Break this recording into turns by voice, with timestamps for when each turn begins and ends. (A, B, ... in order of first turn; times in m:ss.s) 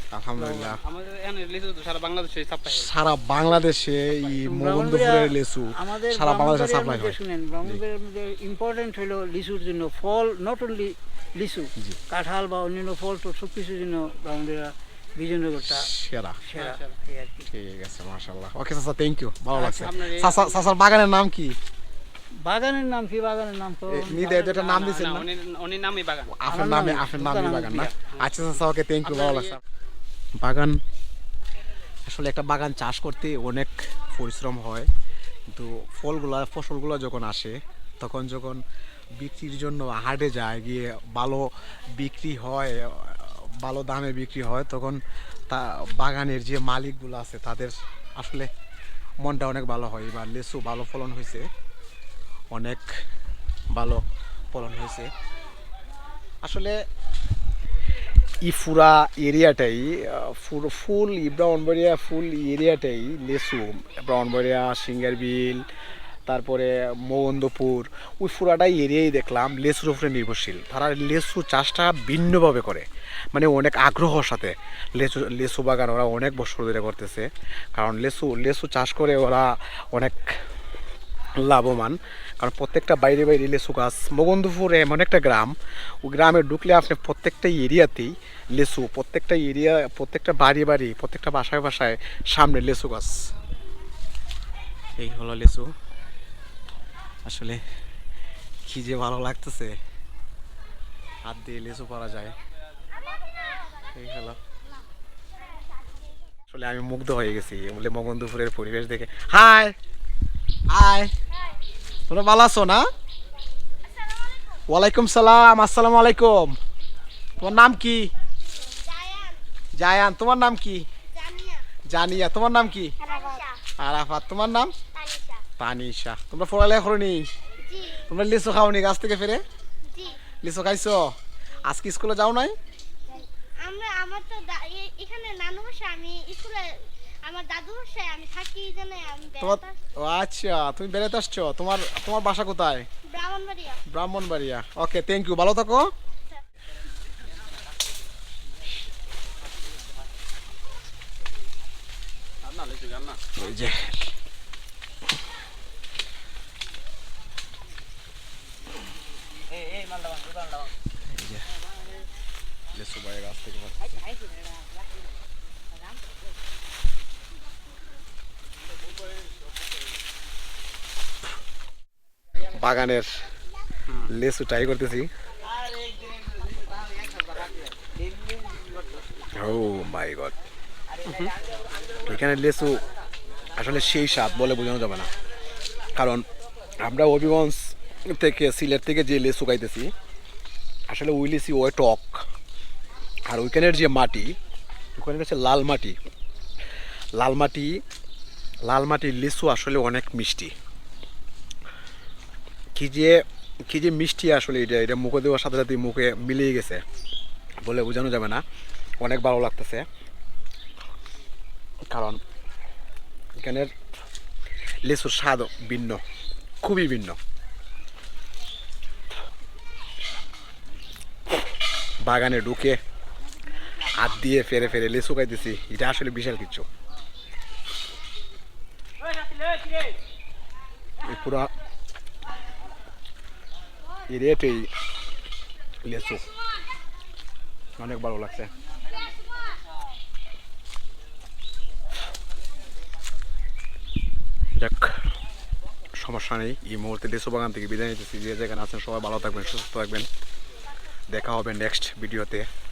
0:00.1-0:00.8 A
0:00.9-0:02.6 B
0:02.6-0:07.8 A
0:04.4-0:15.8 C
0:15.6-0:16.4 A
0:16.4-0:17.4 C
0:17.5-0:21.6 A
0:19.5-0:19.9 C
0:22.4-0:24.8 C
0:23.9-0:25.3 A
0:25.3-0:26.2 B
0:26.3-0:29.6 A
0:26.6-0:27.9 C
0:30.4-0:30.8 A
0:32.0-0:34.9 A
0:35.5-0:38.6 A
0:39.2-0:48.5 A
0:49.2-0:51.5 A
0:52.5-0:52.9 A
0:53.7-0:55.1 A
0:56.4-0:56.7 A
0:58.4-1:05.6 A
1:06.3-1:20.4 A
1:21.4-1:33.3 A
1:35.0-1:35.7 A
1:37.2-1:37.6 A
1:38.6-1:39.8 A
1:41.2-1:42.4 A
1:43.9-1:44.4 A
1:46.5-1:49.7 A
1:50.7-1:51.1 A
1:52.1-1:52.8 A
1:54.7-1:56.6 A
1:57.4-1:58.1 A
1:58.8-1:59.4 D
1:59.8-2:00.9 A
2:01.1-2:01.6 D
2:01.9-2:03.0 A
2:03.0-2:03.6 D
2:03.8-2:04.7 A
2:05.0-2:05.4 D
2:05.6-2:07.3 A
2:07.6-2:08.0 D
2:08.1-2:09.4 A
2:09.9-2:10.2 D
2:10.4-2:11.1 A
2:11.6-2:12.6 A
2:13.1-2:19.8 D
2:19.4-2:22.9 A
2:23.0-2:23.8 D
2:23.9-2:25.9 A
2:33.3-2:34.1 A
2:41.1-2:41.4 A
2:42.7-2:44.0 A
2:52.5-2:53.1 A
2:53.9-2:55.1 A
2:59.3-3:00.3 A
3:02.0-3:02.8 A
3:03.5-3:05.1 A
3:05.9-3:06.3 A
3:06.8-3:09.9 A
3:10.9-3:12.2 A
3:13.2-3:14.4 A
3:15.0-3:16.0 A
3:17.1-3:17.8 A
3:18.6-3:20.5 A
3:22.7-3:26.8 A
3:27.6-3:28.4 A
3:29.0-3:29.9 A
3:31.9-3:32.2 A
3:33.4-3:33.7 A
3:34.8-3:36.0 A
3:36.6-3:37.2 A
3:42.0-3:42.8 A
3:43.9-3:46.6 A
3:51.0-3:51.5 A
3:54.1-3:54.7 A
3:55.8-3:56.2 A
3:57.8-3:58.5 A
4:04.6-4:05.0 A
4:06.0-4:10.1 A
4:11.1-4:12.5 A